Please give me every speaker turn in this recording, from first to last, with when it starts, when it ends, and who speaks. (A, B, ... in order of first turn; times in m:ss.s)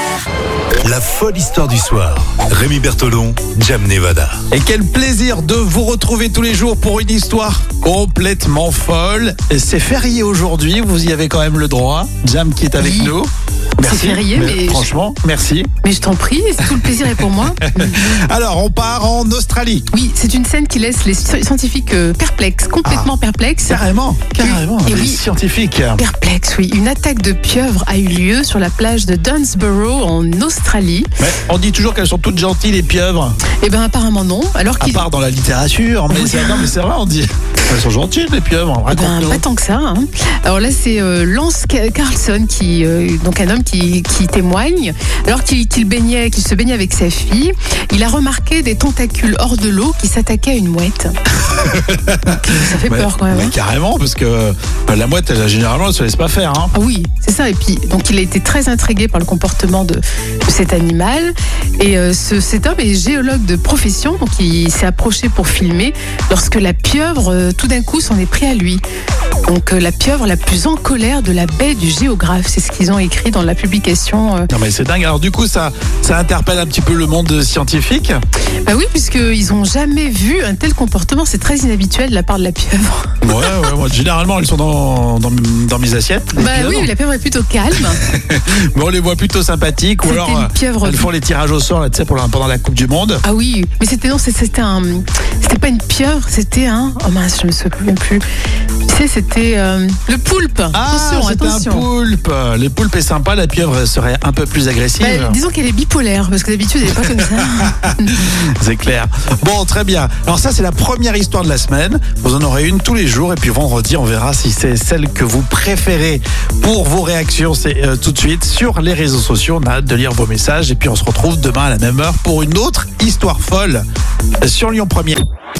0:00.8-0:04.4 A
0:04.5-0:15.7 B
0:12.8-0:13.1 C
0:13.8-0:14.9 C
0:15.8-0:18.2 C
0:16.6-0:19.9 B
0:19.9-0:23.8 C
0:22.8-0:23.1 B
0:23.6-0:26.0 B
0:24.3-0:25.2 C
0:26.0-0:31.1 C
0:31.2-0:33.4 B
0:33.6-0:35.0 C
0:34.8-0:39.4 B
0:36.1-0:36.7 C
0:38.9-0:51.1 C
0:51.4-0:56.7 B
0:52.2-0:53.5 C
0:56.7-1:08.8 C
1:09.5-1:14.5 C
1:14.5-1:18.2 B
1:18.6-1:23.7 C
1:23.2-1:26.9 B
1:26.3-1:28.0 C
1:27.8-1:33.2 B
1:30.0-1:31.1 C
1:33.2-1:38.2 C
1:38.9-1:41.9 C
1:40.7-1:45.4 B
1:45.0-1:48.3 C
1:47.6-2:03.8 B
2:04.4-2:05.2 B